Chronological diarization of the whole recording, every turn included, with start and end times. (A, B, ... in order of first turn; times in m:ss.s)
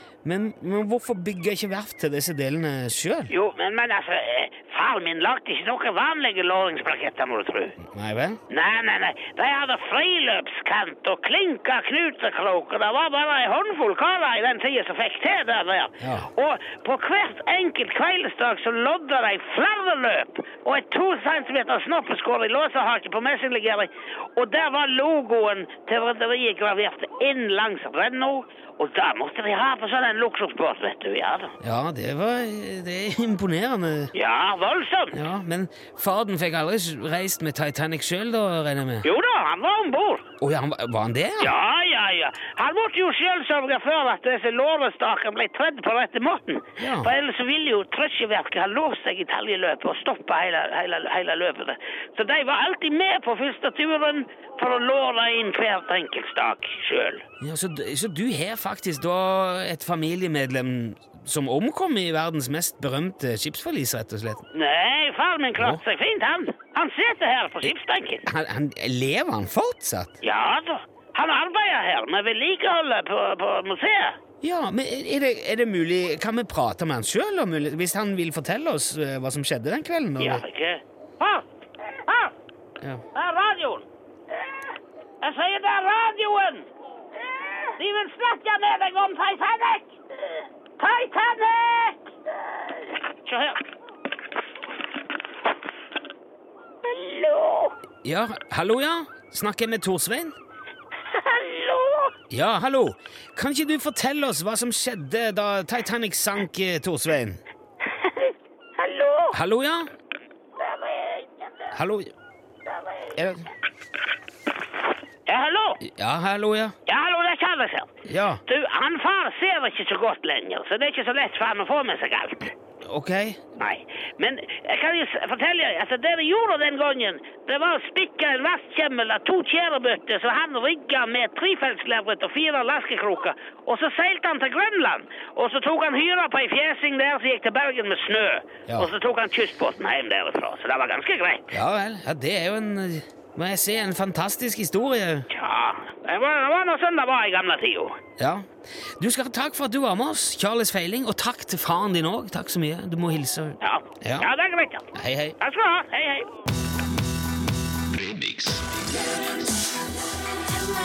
0:00.2-0:03.3 A
0:03.3-0:07.8 B
0:07.9-0:08.4 A
0:08.5-0:31.5 B
0:16.0-0:16.3 A
0:31.6-0:34.1 A
0:34.1-0:35.2 B
0:35.1-0:39.0 A
0:39.0-0:40.2 B
0:40.4-0:41.5 A
0:41.4-0:57.2 B
0:46.8-0:47.1 A
0:57.4-1:04.4 A
1:04.5-1:08.2 B
1:08.2-1:10.2 A
1:10.2-1:14.2 B
1:14.4-1:20.4 A
1:20.2-1:21.4 B
1:22.0-1:22.3 B
1:23.1-1:23.8 B
1:25.2-1:26.7 B
1:27.7-1:32.0 B
1:33.2-1:33.6 B
1:36.8-1:37.7 B
1:38.0-1:40.4 A
1:41.1-1:42.1 B
1:42.3-1:47.4 A
1:48.2-1:49.3 B
1:49.3-1:49.9 A
1:50.7-1:51.5 B
1:51.7-1:52.1 A
1:53.2-1:53.5 A
1:55.2-1:55.8 B
1:55.8-1:56.7 A
1:56.9-1:57.9 B
1:58.0-1:58.4 A
1:58.4-2:02.5 B
2:02.8-2:03.4 A
2:03.6-2:21.5 B
2:21.5-2:25.3 A
2:25.3-2:28.0 B
2:28.2-2:34.3 A
2:33.6-2:34.8 B
2:34.9-2:35.4 A
2:35.4-2:36.3 B